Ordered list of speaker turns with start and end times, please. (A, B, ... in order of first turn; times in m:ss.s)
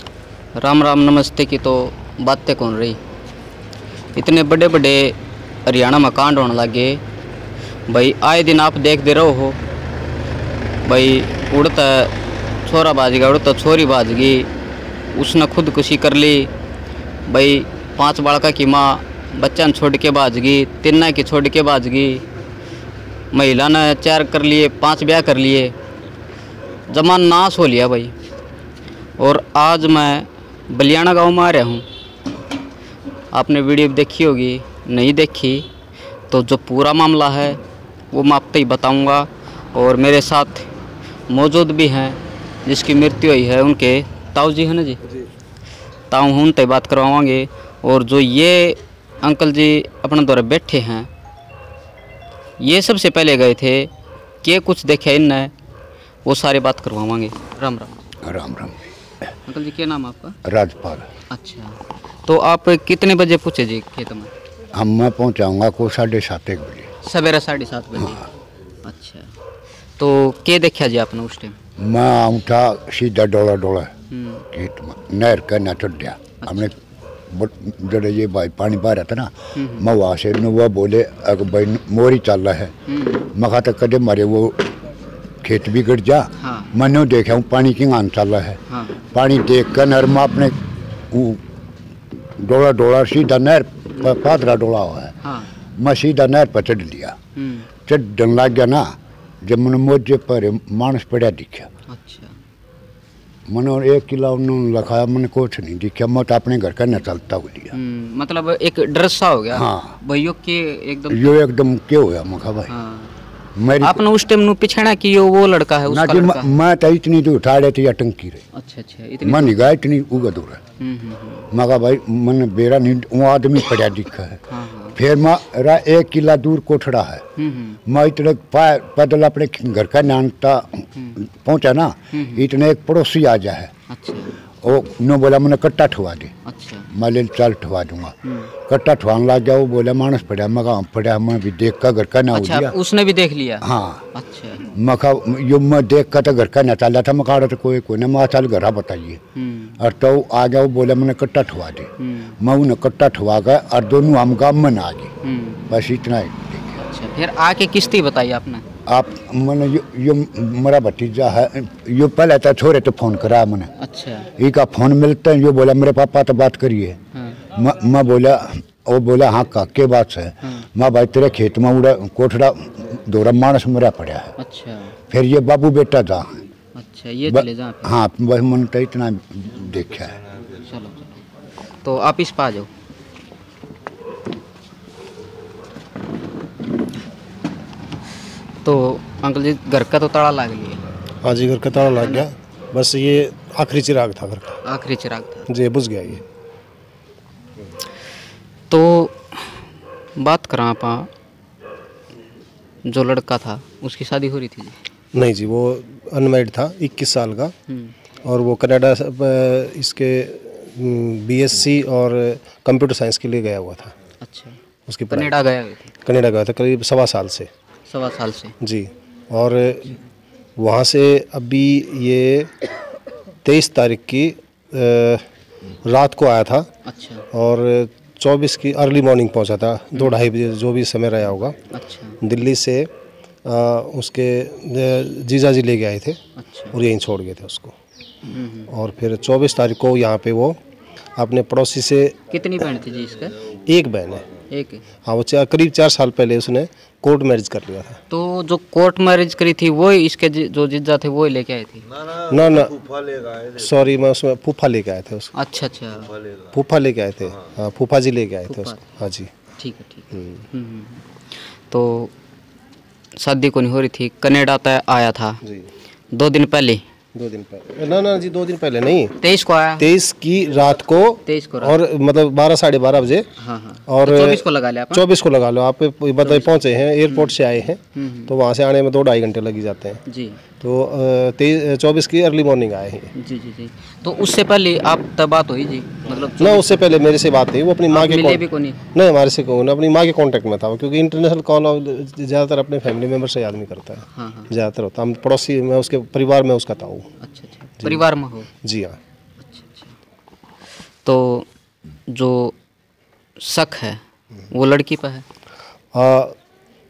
0:00.6-0:03.0 A
0:04.2-0:07.0 A
0:07.9-0:09.6 A
0:10.8-0:14.5 A
0:15.1-0:16.5 A
0:17.3-0:22.2 A
0:23.3-0:25.7 A
0:26.9-0:28.1 A
0:29.2-0:31.9 A
0:33.3-0:35.7 A
0:36.3-0:37.6 A
0:38.1-0:40.7 A
0:41.3-0:45.0 A
0:46.1-0:51.1 A
0:52.6-0:53.9 A
0:54.4-0:55.5 A
0:56.2-0:58.0 A
0:58.2-0:58.7 B
0:59.4-1:00.4 A
1:00.4-1:01.1 B
1:01.3-1:04.3 A
1:04.7-1:06.9 B
1:07.0-1:08.3 A
1:08.8-1:09.3 A
1:10.0-1:11.6 A
1:11.8-1:13.9 B
1:14.1-1:14.4 A
1:14.5-1:16.8 B
1:16.4-1:16.7 A
1:17.3-1:22.7 B
1:19.6-1:19.9 A
1:22.9-1:23.3 A
1:23.3-1:24.7 B
1:25.4-1:28.6 B
1:26.4-1:26.7 A
1:28.7-1:29.0 A
1:29.1-1:30.5 B
1:31.1-1:31.4 B
1:32.4-1:35.1 B
1:35.2-1:35.5 A
1:35.8-1:37.1 B
1:37.4-1:37.7 A
1:37.9-1:41.7 B
1:41.9-1:42.3 A
1:43.5-1:47.7 B
1:47.7-1:51.4 A
1:49.5-1:49.9 B
1:51.1-1:52.7 B
1:52.7-1:53.1 A
1:53.6-1:54.0 B
1:53.8-1:56.6 A
1:55.9-1:58.4 B
1:58.5-1:59.6 A
1:59.2-2:00.6 B
2:00.8-2:01.5 A
2:01.5-2:04.4 B
2:04.5-2:05.0 A
2:05.0-2:07.2 B
2:07.4-2:07.8 A
2:07.9-2:13.7 B
2:12.1-2:12.5 A
2:13.9-2:14.3 A
2:14.6-2:16.3 B
2:16.4-2:16.9 A
2:16.9-2:18.1 B
2:18.2-2:18.5 A
2:18.7-2:22.7 B
2:22.3-2:24.7 A
2:23.6-2:24.0 B
2:24.7-2:29.2 B
2:29.4-2:29.8 A
2:29.8-2:35.1 B
2:32.0-2:32.3 A
2:35.2-2:35.6 A
2:35.7-2:36.8 B
2:36.8-2:38.6 A
2:38.9-2:43.7 B
2:43.8-2:44.3 A
2:44.4-2:47.0 B
2:47.1-2:47.4 A
2:47.5-2:54.3 B
2:50.4-2:50.7 A
2:54.4-2:55.0 A
2:55.1-2:56.4 B
2:56.8-2:58.0 A
2:57.3-3:00.2 B
3:00.5-3:01.2 A
3:01.8-3:02.7 A
3:08.6-3:10.8 A
3:11.2-3:14.6 C
3:12.0-3:12.3 A
3:14.6-3:15.5 A
3:15.5-3:16.2 C
3:18.7-3:19.6 A
3:20.2-3:21.1 A
3:22.8-3:24.8 A
3:25.1-3:27.5 C
3:27.7-3:27.9 A
3:28.2-3:33.9 C
3:34.2-3:34.6 A
3:34.9-3:35.3 C
3:35.1-3:35.9 A
3:36.0-3:37.5 C
3:37.9-3:38.6 A
3:38.6-3:40.0 C
3:40.6-3:42.5 C
3:43.4-3:45.2 C
3:45.8-3:46.7 C
3:46.8-3:47.3 A
3:47.3-3:51.6 C
3:51.7-3:52.2 A
3:52.2-3:52.9 C
3:53.4-3:56.2 C
3:56.4-3:56.8 A
3:56.7-3:57.7 C
3:58.3-3:58.7 A
3:58.7-4:00.6 C
4:01.2-4:02.2 C
4:02.3-4:03.5 A
4:03.7-4:04.3 C
4:04.5-4:04.8 A
4:05.0-4:08.0 C
4:08.1-4:11.9 A
4:12.3-4:15.3 C
4:15.3-4:16.1 A
4:16.5-4:19.3 C
4:18.5-4:18.8 A
4:19.6-4:21.1 A
4:20.1-4:20.4 C
4:21.7-4:22.1 A
4:23.2-4:25.4 A
4:26.1-4:26.8 A
4:27.2-4:29.2 C
4:29.2-4:29.9 A
4:29.8-4:33.3 C
4:31.2-4:31.8 A
4:33.4-4:35.0 A
4:33.9-4:40.0 C
4:36.2-4:37.3 A
4:37.9-4:38.3 A
4:40.1-4:40.4 A
4:40.6-4:43.1 C
4:43.2-4:46.8 A
4:46.4-4:57.1 C
4:47.9-4:48.8 A
4:54.1-4:54.5 A
4:57.2-4:58.5 A
4:58.6-4:59.0 C
4:59.4-4:59.9 A
5:01.0-5:01.5 A
5:02.1-5:02.5 A
5:03.4-5:05.2 A
5:05.9-5:06.4 C